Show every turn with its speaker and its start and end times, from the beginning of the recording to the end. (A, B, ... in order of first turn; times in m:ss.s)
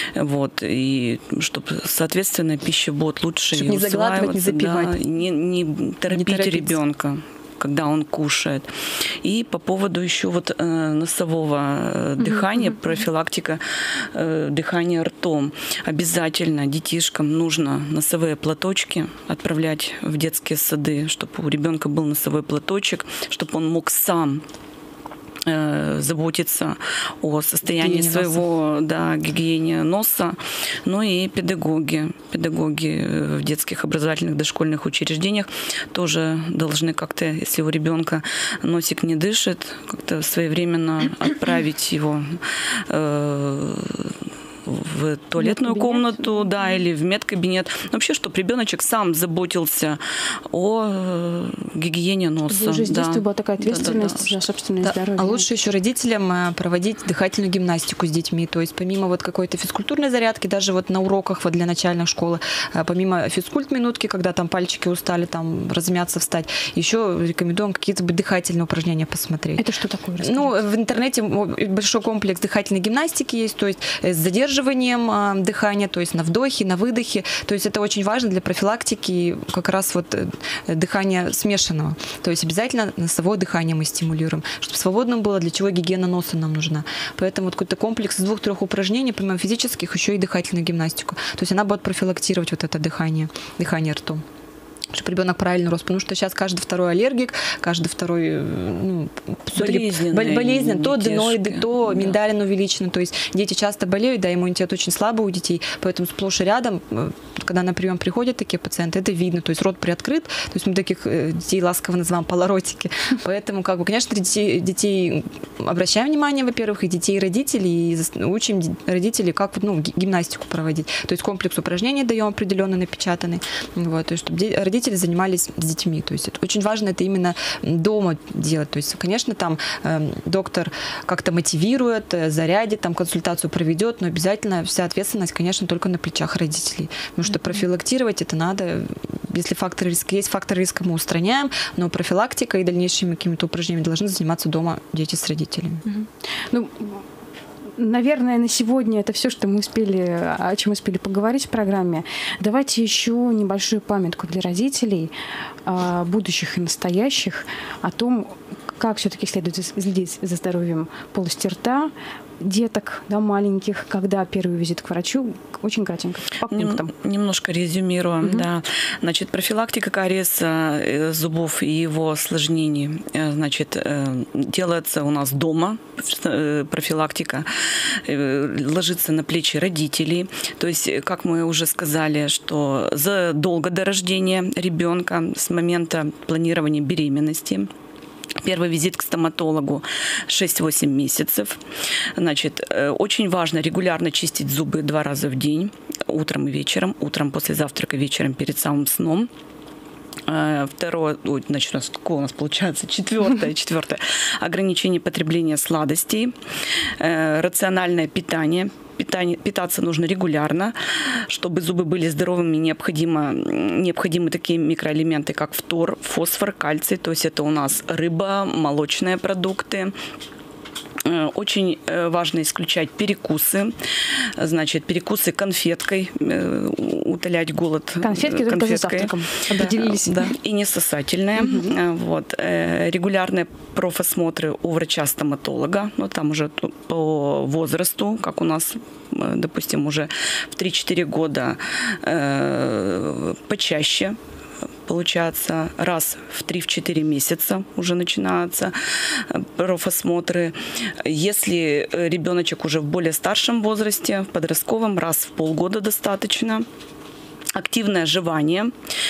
0:00.2-0:08.7 A
0:03.5-0:05.0 B
0:06.1-0:06.8 B
0:09.2-0:24.4 A
0:25.5-0:44.1 A
0:27.6-0:28.4 B
0:44.6-0:54.4 A
0:45.4-0:46.4 C
0:52.5-0:55.5 C
0:54.8-1:09.6 B
1:09.6-1:10.6 C
1:10.2-1:34.2 B
1:34.9-2:25.8 B
1:39.6-1:42.2 A
2:25.9-2:27.0 C
2:27.8-2:35.1 C
2:35.7-2:46.9 C
2:46.5-3:07.7 A
3:08.4-3:11.6 A
3:12.2-3:19.3 A
3:20.3-3:26.4 A
3:27.0-3:39.9 A
3:41.0-3:43.8 A
3:44.4-4:04.2 A
3:48.0-3:50.3 C
3:51.4-3:51.7 C
4:04.9-4:16.7 A
4:17.5-4:18.7 A